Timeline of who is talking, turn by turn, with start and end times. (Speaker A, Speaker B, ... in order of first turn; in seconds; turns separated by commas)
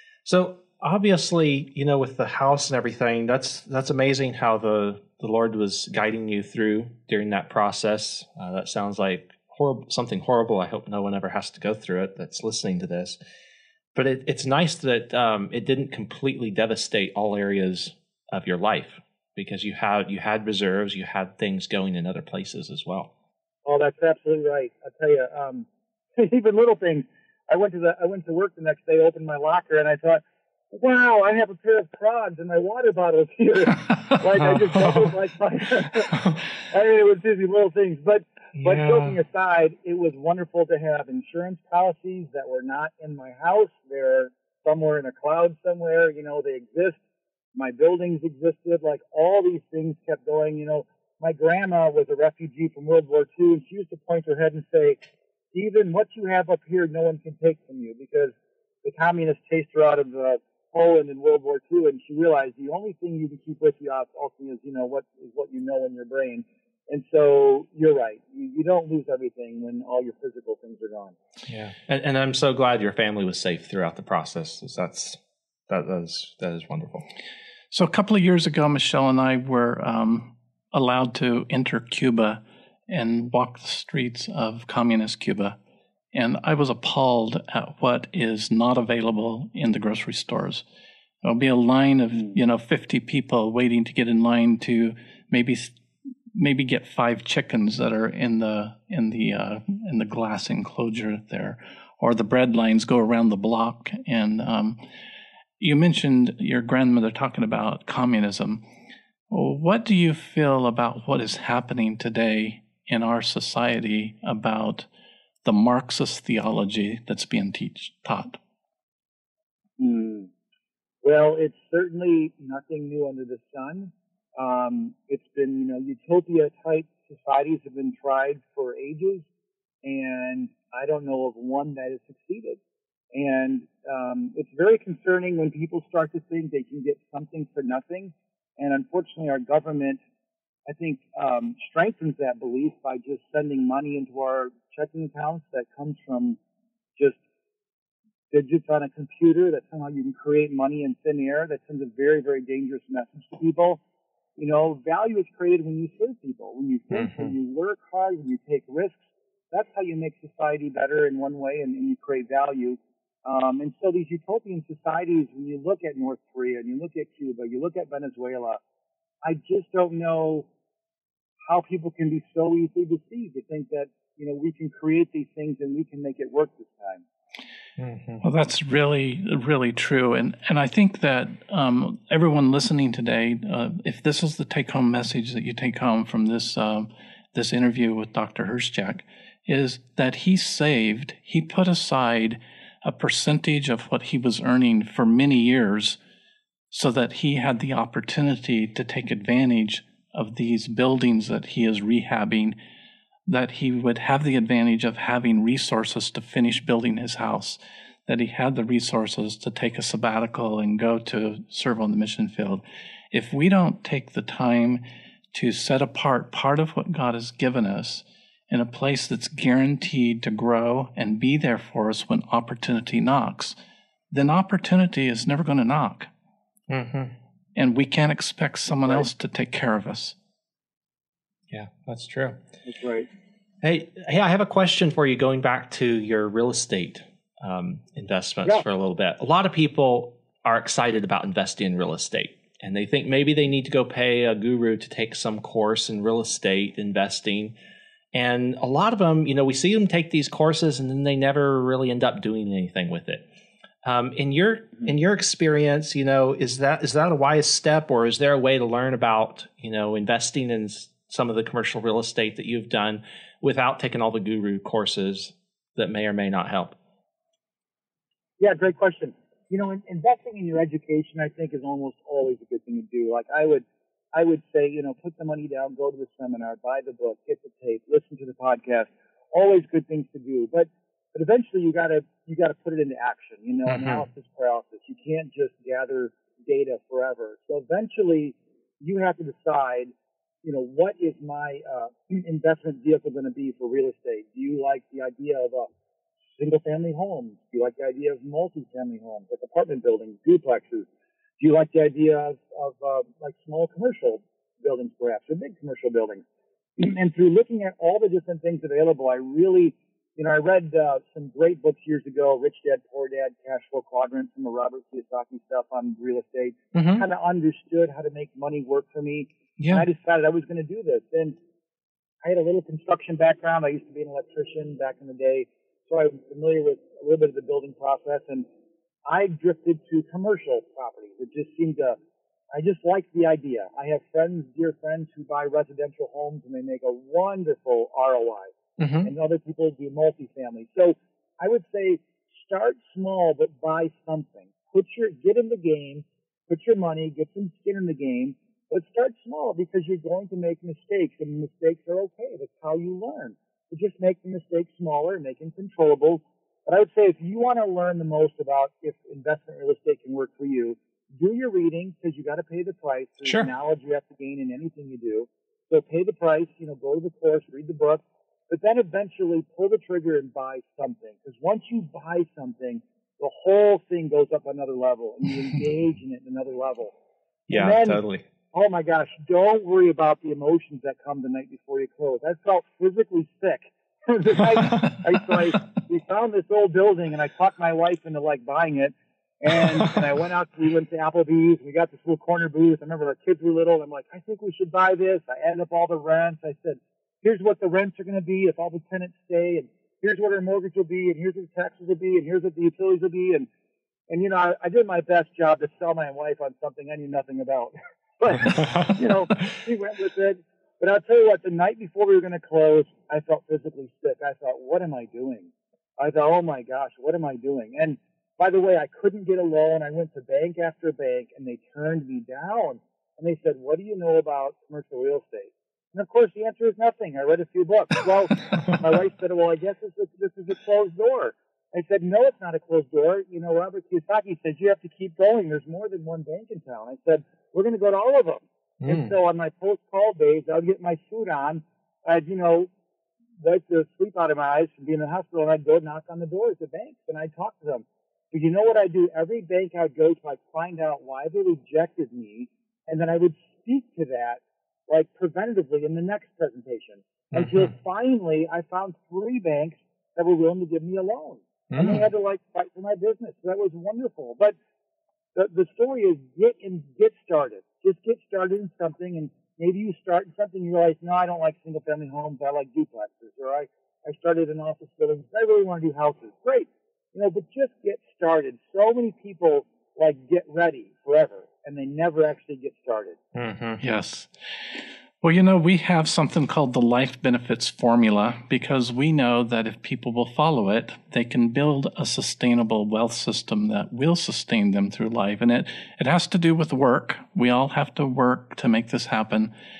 Speaker A: 0.2-13.2, Speaker A: 13.9-23.1, Speaker B: 23.6-47.0, Speaker A: 38.6-39.1, Speaker B: 47.5-55.0, Speaker B: 55.5-71.1, Speaker A: 71.5-75.2, Speaker A: 75.7-77.1, Speaker C: 77.7-85.6, Speaker C: 86.1-90.6, Speaker C: 91.2-95.8, Speaker C: 96.3-104.8, Speaker C: 105.6-108.6, Speaker C: 109.3-114.9, Speaker C: 115.4-118.4, Speaker B: 119.8-120.3, Speaker B: 121.0-129.2, Speaker B: 129.8-132.6, Speaker B: 133.1-140.0, Speaker B: 140.7-146.4, Speaker B: 148.3-153.8, Speaker B: 154.4-168.6, Speaker A: 156.9-157.3, Speaker B: 169.2-170.5, Speaker B: 171.4-177.0, Speaker A: 177.8-178.2, Speaker C: 178.2-196.0, Speaker C: 196.7-202.6, Speaker C: 203.3-223.6, Speaker C: 224.1-226.1, Speaker A: 226.7-227.1, Speaker C: 227.6-230.2, Speaker A: 231.5-232.4, Speaker B: 232.6-233.1, Speaker A: 233.6-247.5, Speaker A: 248.1-253.2, Speaker A: 253.8-266.7, Speaker B: 268.4-289.9, Speaker A: 283.7-284.0, Speaker B: 290.4-295.7, Speaker B: 296.4-300.9, Speaker B: 301.4-306.2, Speaker B: 306.8-321.4, Speaker A: 316.7-317.0, Speaker A: 319.6-319.9, Speaker B: 322.2-328.4, Speaker B: 329.1-332.0, Speaker B: 332.5-338.5, Speaker A: 338.8-339.1, Speaker B: 339.0-376.9, Speaker A: 363.2-363.5, Speaker A: 377.5-378.2, Speaker B: 377.5-403.5, Speaker B: 404.1-442.7, Speaker A: 438.8-439.1, Speaker B: 443.4-464.6, Speaker A: 457.3-457.7, Speaker A: 461.7-462.0, Speaker B: 465.3-483.2, Speaker A: 483.3-483.8, Speaker C: 483.8-499.5